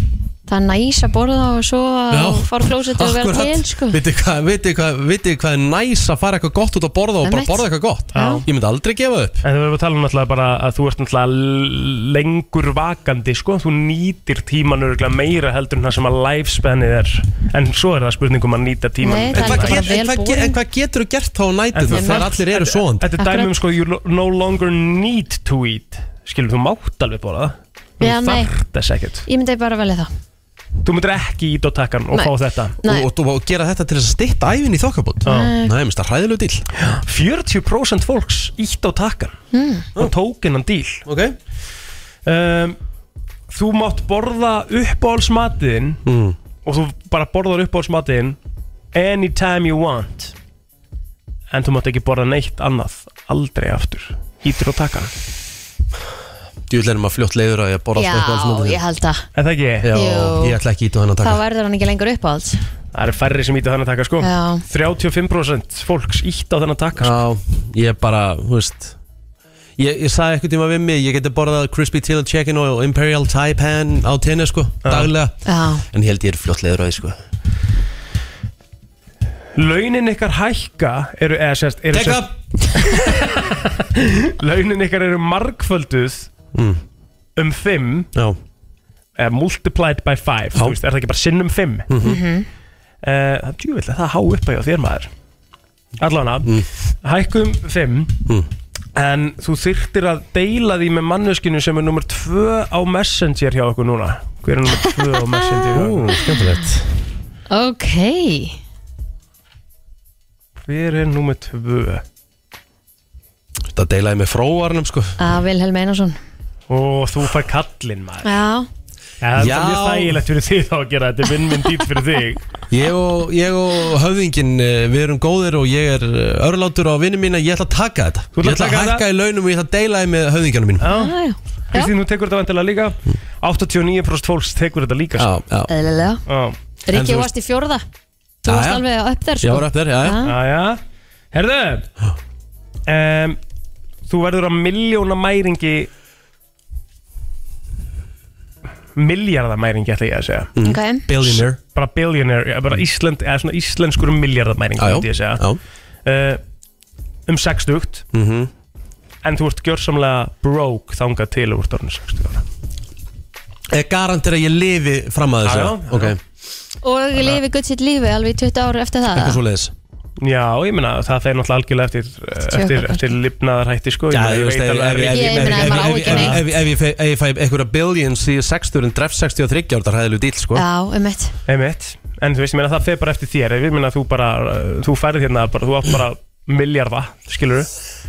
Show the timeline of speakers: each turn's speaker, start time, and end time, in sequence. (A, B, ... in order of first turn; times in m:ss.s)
0:00.5-0:04.0 A
0:02.1-0:09.4 B
0:07.2-0:08.4 A
0:08.1-0:08.4 C
0:09.4-0:19.9 C
0:19.0-0:20.6 A
0:19.3-0:23.1 B
0:21.7-0:29.2 C
0:21.9-0:22.3 A
0:23.2-0:23.5 A
0:28.0-0:28.5 A
0:29.3-0:30.1 A
0:30.8-0:32.8 C
0:32.1-0:33.1 A
0:32.8-0:36.7 B
0:35.2-0:35.8 A
0:35.3-0:35.5 C
0:36.8-0:39.4 C
0:39.5-0:39.8 A
0:40.0-0:41.0 C
0:41.0-0:41.4 B
0:42.2-0:42.8 C
0:43.5-0:46.0 C
0:46.0-0:46.4 B
0:46.6-0:48.4 C
0:48.9-0:50.3 C
0:51.5-0:55.1 C
0:56.7-0:58.8 B
0:58.0-0:59.2 A
0:59.4-0:59.9 C
0:59.8-1:01.4 B
0:59.9-1:00.6 A
1:01.2-1:02.6 A
1:02.9-1:07.1 C
1:04.2-1:04.6 A
1:07.0-1:09.0 B
1:09.8-1:15.4 B
1:14.8-1:15.1 C
1:15.4-1:15.8 A
1:15.9-1:17.2 B
1:19.6-1:26.3 C
1:21.9-1:22.3 B
1:26.5-1:26.8 B
1:27.4-1:28.1 C
1:29.2-1:31.9 C
1:31.9-1:32.2 B
1:32.0-1:32.4 A
1:33.0-1:35.1 C
1:36.0-1:38.2 C
1:36.4-1:36.7 B
1:39.0-1:46.2 C
1:44.8-1:45.4 A
1:45.7-1:46.9 B
1:47.5-1:48.6 A
1:50.6-1:52.0 C
1:53.7-1:55.2 B
1:55.2-1:56.2 A
1:56.7-1:58.4 C
1:58.2-1:58.7 A
1:59.2-2:02.4 C
1:59.4-2:00.2 B
2:02.7-2:10.9 B
2:08.3-2:09.0 C
2:10.8-2:11.1 C
2:10.9-2:11.9 A
2:11.7-2:15.3 C
2:15.2-2:15.7 B
2:15.7-2:16.2 A
2:16.3-2:16.6 C
2:16.8-2:17.8 A
2:16.9-2:17.3 B
2:18.4-2:20.3 A
2:18.4-2:18.8 B
2:19.4-2:20.2 B
2:20.2-2:20.8 C
2:21.3-2:21.9 C
2:22.9-2:23.4 C
2:24.1-2:25.9 C
2:29.0-2:30.5 C
2:30.6-2:31.6 B
2:30.6-2:31.1 A
2:31.3-2:35.4 C
2:34.8-2:35.6 B
2:36.0-2:36.4 C
2:37.3-2:38.0 C
2:38.1-2:38.5 B
2:39.2-2:42.4 C
2:43.7-2:46.2 B
2:45.4-2:46.2 C
2:46.8-2:49.4 A
2:49.1-2:49.7 B
2:50.2-2:56.4 C
2:52.5-2:53.1 A
2:54.1-3:00.6 B
2:55.1-2:56.4 A
3:00.5-3:01.3 A
3:01.5-3:07.7 C